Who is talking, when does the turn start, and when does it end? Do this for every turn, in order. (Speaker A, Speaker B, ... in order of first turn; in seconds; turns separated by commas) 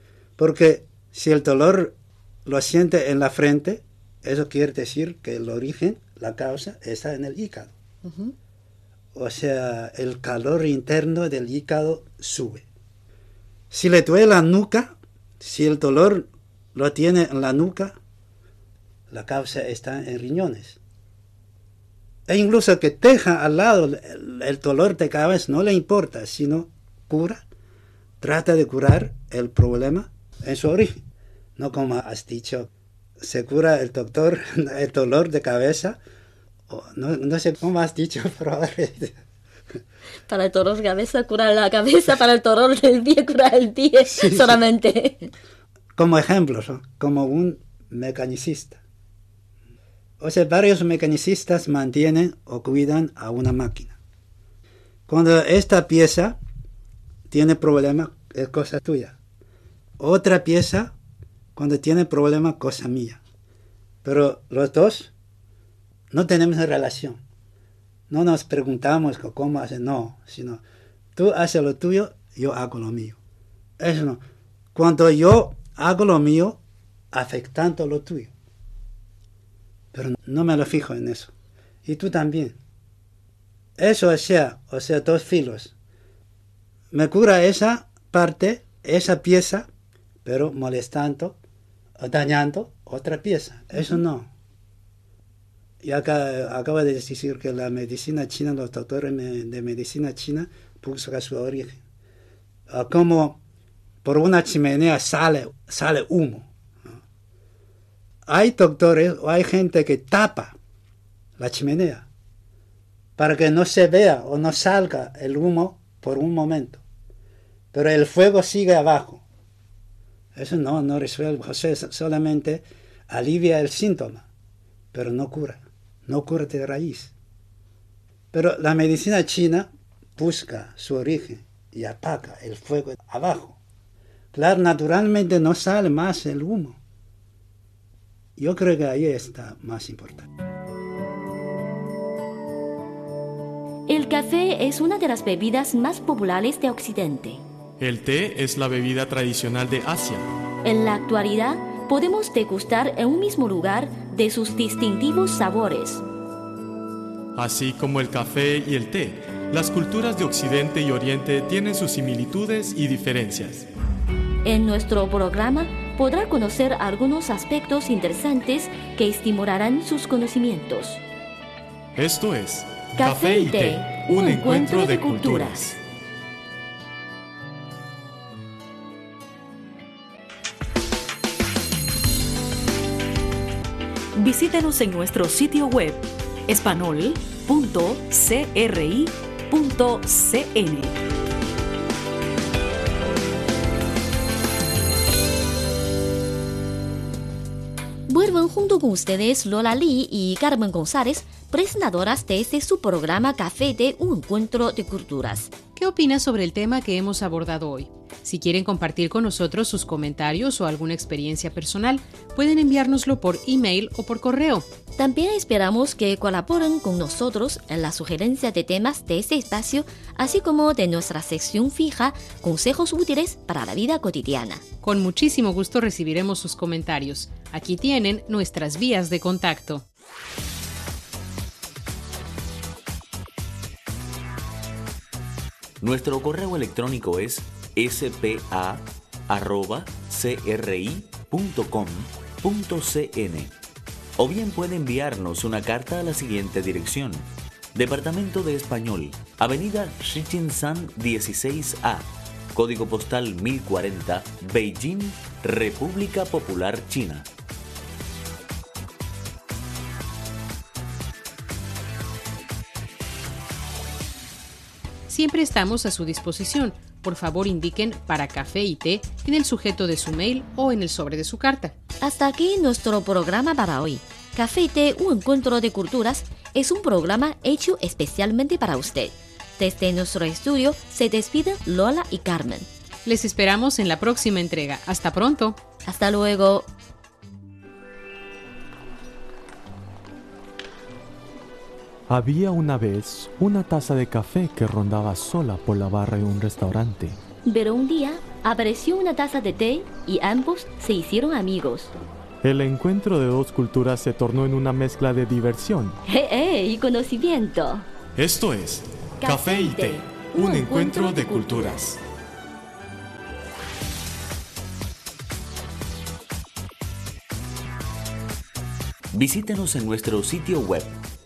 Speaker A: 0.4-7.7, Speaker B: 8.1-8.3, Speaker A: 9.2-12.7, Speaker A: 13.7-18.0, Speaker A: 19.1-20.8, Speaker A: 22.3-27.4, Speaker A: 28.2-31.0, Speaker A: 31.6-36.0, Speaker A: 36.7-39.2, Speaker B: 40.3-45.3, Speaker A: 44.1-44.6, Speaker A: 46.0-48.8, Speaker A: 50.2-54.0, Speaker A: 55.1-56.4, Speaker A: 57.3-59.2, Speaker A: 60.0-61.0, Speaker A: 61.6-63.2, Speaker A: 64.0-65.1, Speaker A: 66.1-67.2, Speaker A: 68.1-70.6, Speaker A: 71.2-73.2, Speaker A: 73.8-74.2, Speaker A: 74.8-76.6, Speaker A: 77.1-78.3, Speaker A: 79.9-81.3, Speaker A: 81.9-82.6, Speaker A: 83.8-85.7, Speaker A: 86.9-89.7, Speaker A: 90.2-91.4, Speaker A: 92.0-94.3, Speaker A: 95.8-101.8, Speaker A: 102.7-103.4, Speaker A: 104.0-106.5, Speaker A: 108.3-110.6, Speaker A: 111.4-112.1, Speaker A: 113.2-116.8, Speaker A: 117.7-119.2, Speaker A: 120.3-124.3, Speaker A: 124.9-127.1, Speaker A: 128.3-133.6, Speaker A: 134.3-136.8, Speaker A: 138.4-140.3, Speaker B: 143.9-147.4, Speaker C: 147.8-150.2, Speaker B: 150.6-156.0, Speaker C: 157.3-163.7, Speaker B: 164.4-171.0, Speaker C: 172.0-175.8, Speaker B: 173.0-175.7, Speaker D: 184.2-190.9, Speaker B: 198.1-205.5, Speaker E: 205.8-214.7, Speaker B: 215.0-224.6, Speaker E: 224.8-229.8, Speaker F: 235.8-243.5, Speaker F: 244.2-257.3, Speaker E: 265.1-271.8, Speaker B: 272.0-282.7, Speaker E: 283.1-285.6, Speaker B: 285.9-286.7, Speaker C: 292.1-297.2, Speaker B: 297.4-301.9, Speaker C: 302.4-306.0, Speaker B: 306.1-307.9, Speaker C: 308.2-312.0, Speaker B: 309.2-311.8, Speaker F: 319.1-321.0